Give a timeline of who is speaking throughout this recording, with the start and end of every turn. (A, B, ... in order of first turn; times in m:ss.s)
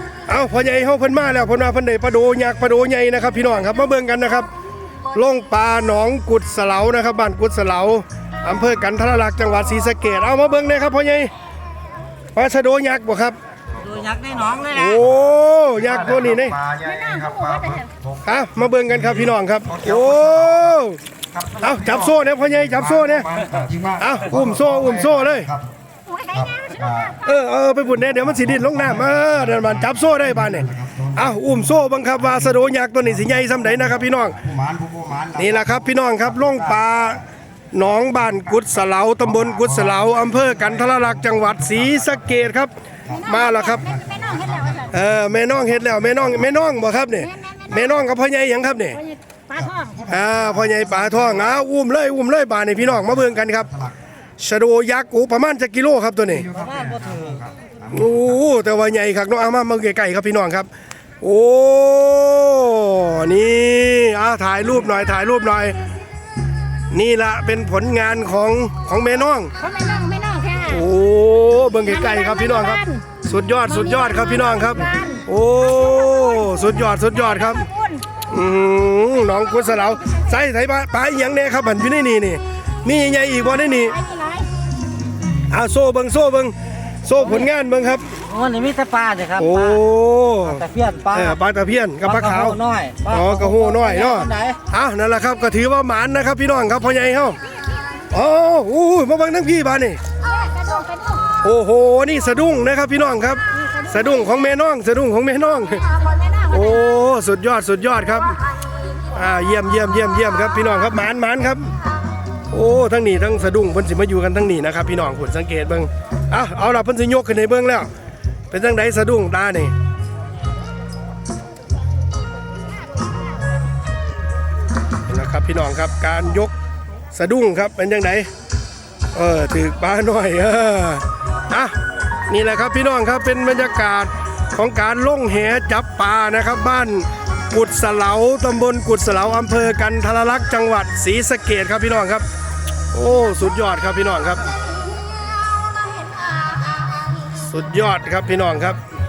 0:00.3-0:04.5 A
0:05.1-0:11.3 A
0:12.3-0:13.4 A
0:13.8-0:14.9 B
0:14.7-0:16.6 A
0:16.4-0:18.0 C
0:16.8-0:17.9 D
0:18.2-0:21.0 A
0:21.4-0:21.8 C
0:21.6-0:23.3 A
0:23.4-0:24.7 C
0:24.0-0:25.6 A
0:26.1-0:27.1 D
0:26.4-0:27.2 C
0:27.2-0:34.5 A
0:28.7-0:29.2 C
0:30.6-0:31.1 C
0:34.6-0:35.4 C
0:35.3-0:43.9 A
0:43.4-0:44.9 D
0:43.9-0:44.9 C
0:44.9-0:49.0 A
0:47.4-0:47.7 D
0:49.1-0:50.0 D
0:49.6-0:50.8 C
0:50.0-0:53.8 A
0:54.4-0:56.5 A
0:56.5-0:57.5 C
0:56.6-0:57.4 B
0:57.9-1:00.7 A
1:01.2-1:05.8 A
1:06.9-1:09.5 A
1:09.6-1:10.8 D
1:10.7-1:17.7 A
1:12.1-1:13.0 D
1:13.8-1:15.2 D
1:17.4-1:18.0 D
1:18.2-1:24.0 A
1:23.9-1:24.5 D
1:25.5-1:28.2 A
1:28.2-1:29.8 B
1:29.4-1:37.4 A
1:30.6-1:31.3 B
1:32.1-1:34.6 B
1:38.1-1:40.0 A
1:40.2-1:41.3 D
1:41.4-1:48.4 A
1:46.1-1:46.4 D
1:49.1-1:51.7 A
1:52.5-1:57.9 A
1:58.5-1:59.7 A
2:05.1-2:06.5 A
2:07.1-2:08.3 A
2:09.1-2:11.7 A
2:12.3-2:22.2 A
2:22.9-2:24.5 A
2:25.3-2:26.9 D
2:27.4-2:28.8 A